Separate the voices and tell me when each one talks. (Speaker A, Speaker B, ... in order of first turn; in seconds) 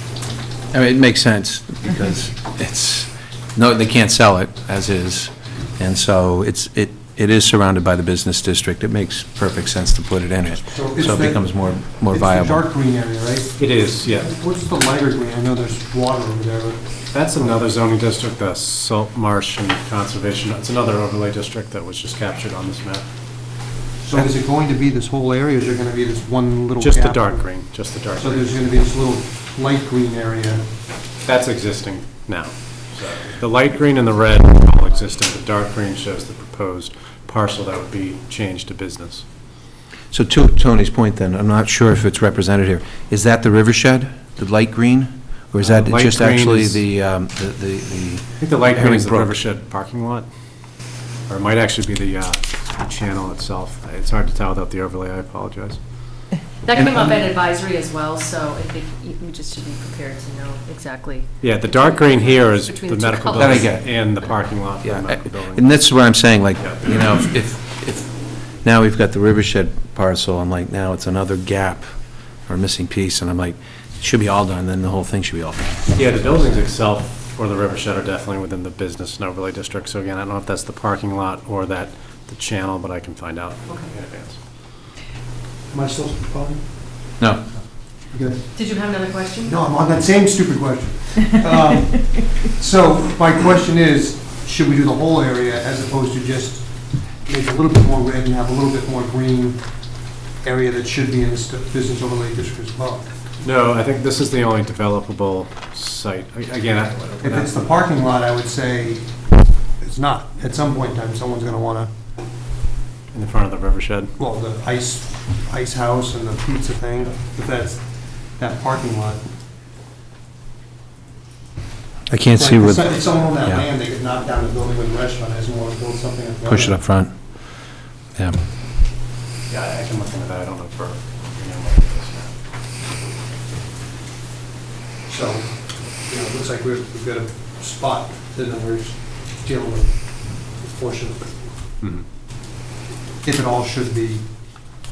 Speaker A: 0.7-12.6, 40.1-49.4, 56.8-57.0, 63.4-75.8, 87.2-87.5, 122.1-123.7, 126.5-127.2
Speaker B: 10.7-17.6, 24.0-30.7, 85.7-87.2, 88.1-99.6, 100.4-103.1, 107.2-109.2, 109.8-111.9, 114.2-119.2, 122.3-126.8, 135.1-141.5, 143.2-144.2
Speaker C: 13.6-14.3, 17.1-23.1, 26.8-28.6, 31.2-39.3, 45.6-46.8, 48.4-50.3, 51.3-55.8, 61.4-65.8, 66.6-67.0, 75.9-84.4, 103.4-107.7, 113.1-114.1, 129.5-132.3, 141.8-142.1
Speaker D: 56.6-63.7, 83.7-83.9, 88.5-89.6